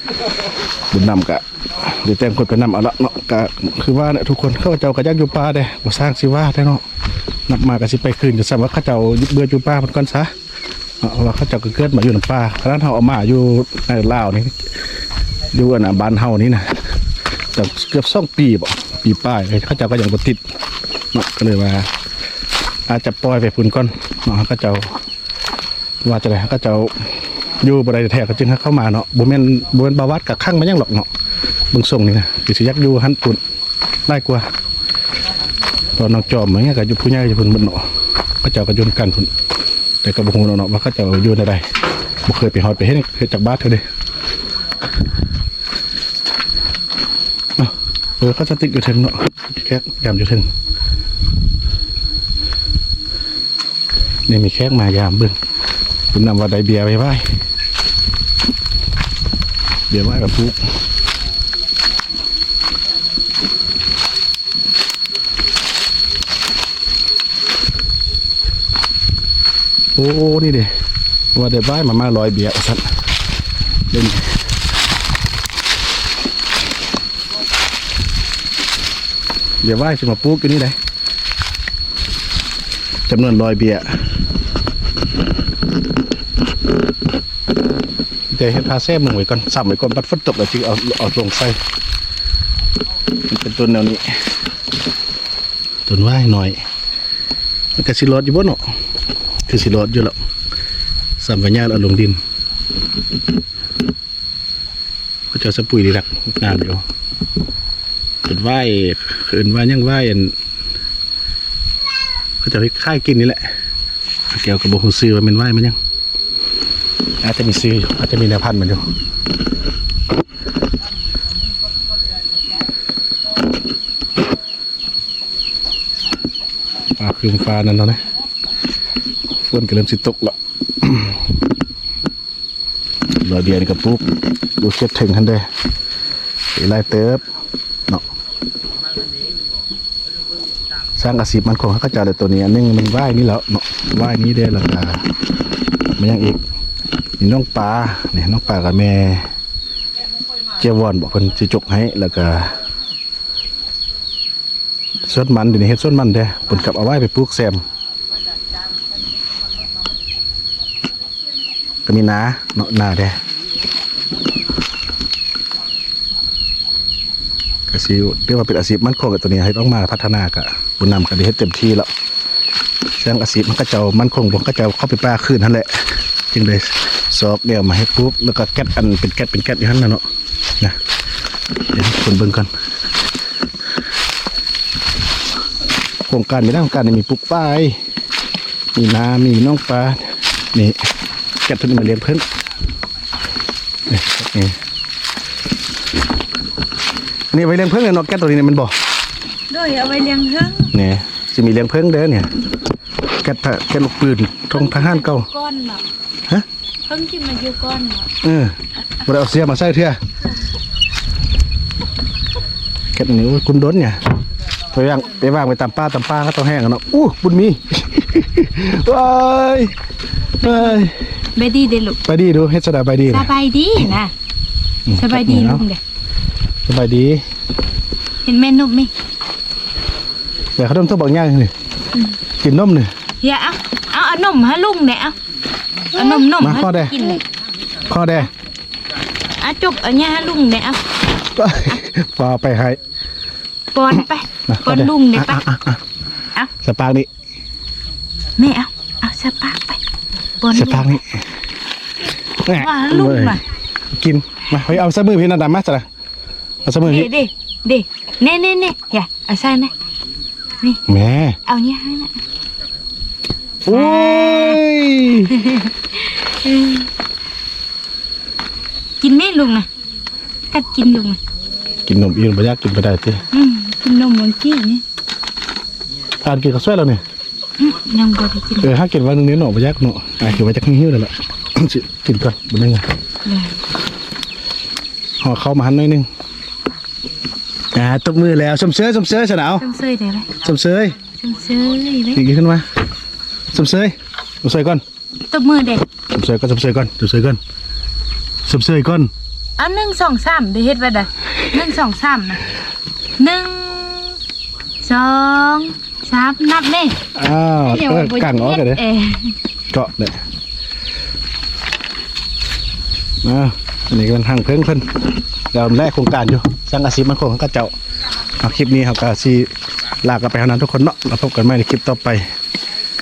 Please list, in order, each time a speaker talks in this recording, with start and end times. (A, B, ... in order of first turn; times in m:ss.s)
0:00.9-0:06.8 A
0:07.5-0:10.3 A
0:11.0-0:14.5 A
0:15.5-0:16.6 A
0:17.5-0:20.4 A
0:21.1-0:21.9 A
0:22.9-0:24.8 A
0:26.0-0:26.9 A
0:27.6-0:31.1 A
0:31.7-0:33.4 A
0:34.0-0:34.5 A
0:36.0-0:37.8 A
0:38.4-0:39.3 A
0:40.0-0:41.6 A
0:42.2-0:43.8 A
0:47.6-0:50.4 A
0:54.3-0:55.4 A
0:56.1-0:57.2 A
0:59.9-1:00.6 A
1:10.0-1:10.7 A
1:11.3-1:12.8 A
1:13.9-1:14.2 A
1:19.6-1:20.8 A
1:23.1-1:23.9 A
1:28.3-1:31.6 A
1:33.3-1:34.1 A
1:35.9-1:36.6 A
1:37.8-1:38.6 A
1:39.5-1:40.2 A
1:41.2-1:42.2 A
1:45.3-1:46.8 A
1:48.2-1:50.3 A
1:52.4-1:53.4 A
1:54.3-1:55.8 A
1:57.2-1:58.8 A
2:07.0-2:08.0 A
2:09.4-2:11.3 A
2:13.2-2:14.0 A
2:14.6-2:15.4 A
2:16.5-2:17.2 A
2:21.0-2:25.0 A
2:26.0-2:26.4 A
2:27.2-2:29.3 A
2:30.6-2:32.5 A
2:35.0-2:37.6 A
2:41.8-2:43.2 A
2:47.7-2:51.9 A
2:53.0-3:00.0 A
3:01.7-3:02.5 A
3:06.1-3:07.8 A
3:08.8-3:10.0 A
3:11.4-3:12.2 A
3:13.9-3:14.6 A
3:17.3-3:18.7 A
3:19.5-3:20.7 B
3:20.7-3:22.3 A
3:23.2-3:25.2 A
3:24.5-3:25.8 B
3:26.9-3:28.1 B
3:28.2-3:30.0 A
3:32.9-3:34.0 A
3:34.7-3:39.7 A
3:40.4-3:40.9 A
3:40.4-3:40.8 B
3:41.4-3:42.0 B
3:42.0-3:43.3 A
3:43.1-3:44.1 B
3:44.9-3:45.6 A
3:44.9-3:45.8 B
3:46.7-3:47.2 A
3:48.2-3:48.9 B
3:50.6-3:51.5 A
3:52.4-3:52.9 A
3:53.2-3:55.2 B
3:55.9-3:57.2 B
3:56.4-3:56.9 A
3:57.8-3:58.3 A
3:59.4-4:00.8 B
4:01.3-4:02.8 A
4:03.7-4:05.4 B
4:04.5-4:05.8 A
4:06.6-4:07.1 A
4:08.4-4:09.8 B
4:10.4-4:11.0 B
4:10.5-4:11.0 A
4:12.4-4:13.4 A
4:12.5-4:13.4 B
4:14.0-4:15.8 A
4:16.6-4:17.1 A
4:16.8-4:19.7 B
4:20.9-4:21.4 A
4:21.4-4:22.1 B
4:23.6-4:25.3 A
4:23.7-4:24.6 B
4:25.3-4:26.9 B
4:29.0-4:29.7 B
4:30.5-4:31.2 B
4:31.8-4:33.2 A
4:33.3-4:34.8 B
4:36.2-4:37.0 A
4:37.6-4:38.7 B
4:38.6-4:42.8 A
4:43.2-4:43.6 B
4:45.2-4:46.1 A
4:47.7-4:49.6 A
4:49.6-4:50.3 B
4:50.4-4:51.0 A
4:51.1-4:52.2 B
4:52.1-4:52.6 A
4:53.5-4:54.8 A
4:55.3-4:55.8 B
4:56.1-4:57.4 A
4:58.4-4:59.1 A
4:59.6-5:02.4 B
5:03.2-5:04.2 B
5:04.8-5:07.0 B
5:07.2-5:08.8 A
5:07.6-5:09.3 B
5:09.7-5:10.2 A
5:13.2-5:14.8 A
5:15.5-5:17.7 A
5:18.4-5:19.5 A
5:20.0-5:22.2 A